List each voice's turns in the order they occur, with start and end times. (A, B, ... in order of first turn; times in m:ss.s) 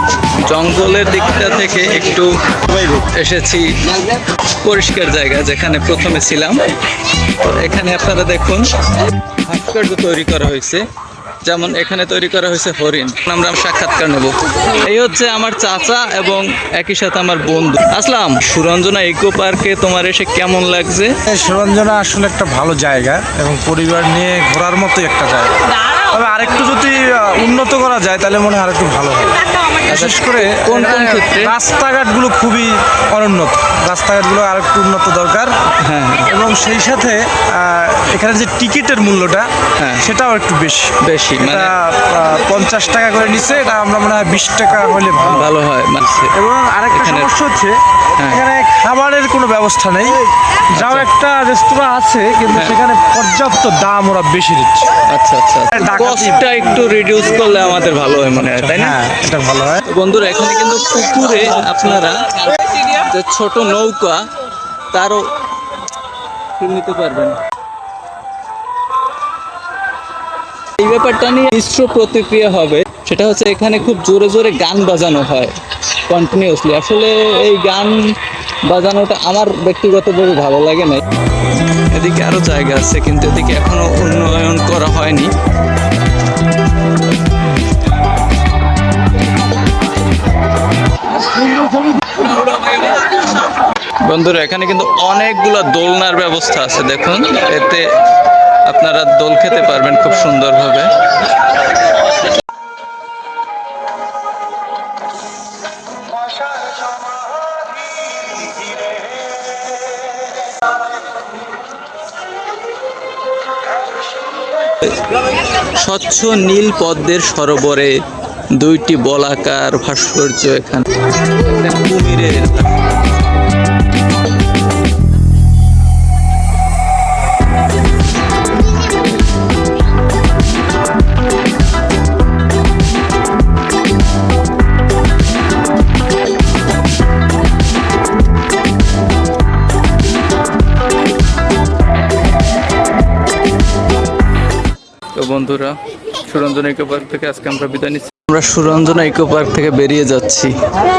0:00.4-0:03.7 A
0:04.6-0:06.6 A
0:07.4-0:08.7 A
0:09.4-0:10.8 A
0:11.4-0:21.1 A
0:21.3-0:35.5 B
0:29.8-0:31.5 A
0:35.8-0:36.3 A
0:36.3-0:39.5 B
0:39.8-0:40.1 A
0:40.0-0:45.5 B
0:41.0-0:41.7 A
0:45.2-0:46.3 A
0:46.3-0:47.8 B
0:46.9-0:47.3 A
0:48.2-0:48.4 A
0:48.3-0:50.2 B
0:50.8-0:51.1 A
0:50.8-0:54.9 B
0:55.1-0:59.0 A
0:55.7-0:56.5 B
0:58.5-0:59.8 B
0:59.8-1:04.2 A
1:04.9-1:05.2 A
1:06.6-1:07.4 A
1:10.8-1:15.6 A
1:16.1-1:18.0 A
1:18.7-1:21.0 A
1:21.9-1:25.3 A
1:32.1-1:33.2 A
1:34.1-1:37.8 A
1:38.7-1:40.9 A
1:55.8-1:58.0 A
1:58.6-2:02.9 A
2:25.1-2:30.6 A